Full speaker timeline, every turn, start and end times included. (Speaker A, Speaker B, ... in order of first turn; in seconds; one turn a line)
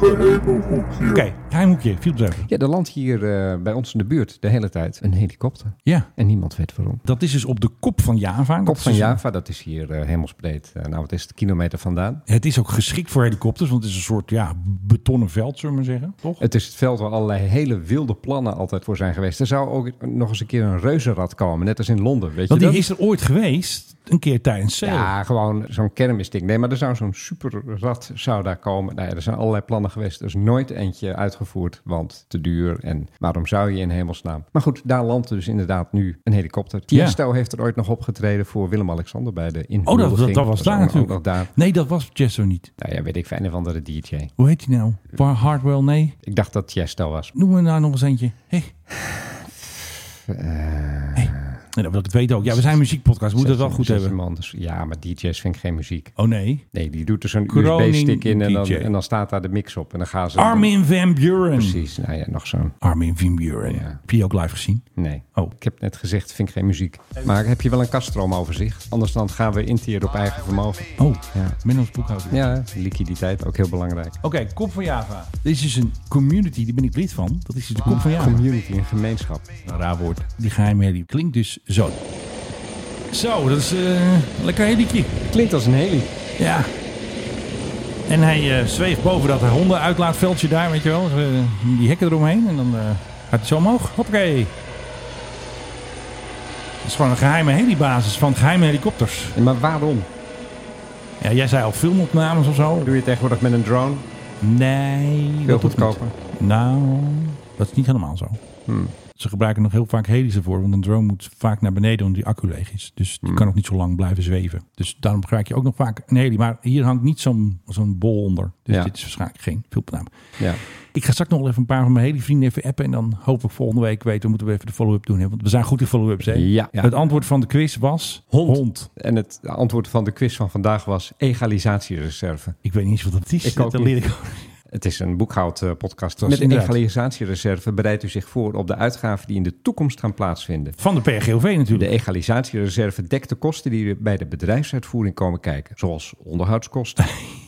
Speaker A: 0.4-2.5
Speaker B: 2.5-7.0
Speaker A: 7.0-9.2
Speaker B: 8.6-12.2
Speaker A: 12.3-16.4
Speaker B: 16.4-22.9
Speaker A: 22.5-25.1
Speaker B: 24.8-41.5
Speaker A: 36.9-37.2
Speaker A: 39.9-42.7
Speaker B: 42.8-44.3
Speaker A: 44.4-46.1
Speaker B: 46.2-47.3
Speaker A: 47.3-48.7
Speaker B: 48.9-51.6
Speaker A: 51.1-54.1
Speaker B: 52.5-52.8
Speaker B: 53.4-56.1
Speaker A: 56.2-56.6
Speaker B: 56.7-60.7
Speaker A: 57.5-58.9
Speaker A: 60.4-61.8
Speaker B: 61.5-62.7
Speaker A: 62.8-64.8
Speaker B: 63.6-64.0
Speaker B: 65.0-71.6
Speaker A: 71.0-72.5
Speaker B: 72.3-74.2
Speaker A: 74.2-78.4
Speaker B: 77.9-79.5
Speaker A: 79.6-82.0
Speaker A: 83.1-85.3
Speaker B: 85.3-86.1
Speaker A: 86.4-86.7
Speaker A: 88.0-94.5
Speaker A: 96.8-99.3
Speaker B: 99.3-100.1
Speaker A: 101.2-102.9
Speaker B: 102.8-104.0
Speaker A: 104.4-108.4
Speaker B: 105.5-106.1
Speaker B: 108.7-108.9
Speaker A: 109.2-120.1
Speaker B: 113.2-113.5
Speaker A: 120.9-128.9
Speaker B: 126.2-126.9
Speaker B: 128.3-132.6
Speaker A: 132.6-134.5
Speaker B: 133.4-134.0
Speaker B: 134.7-140.8
Speaker A: 136.2-136.8
Speaker A: 140.8-141.9
Speaker B: 141.7-147.1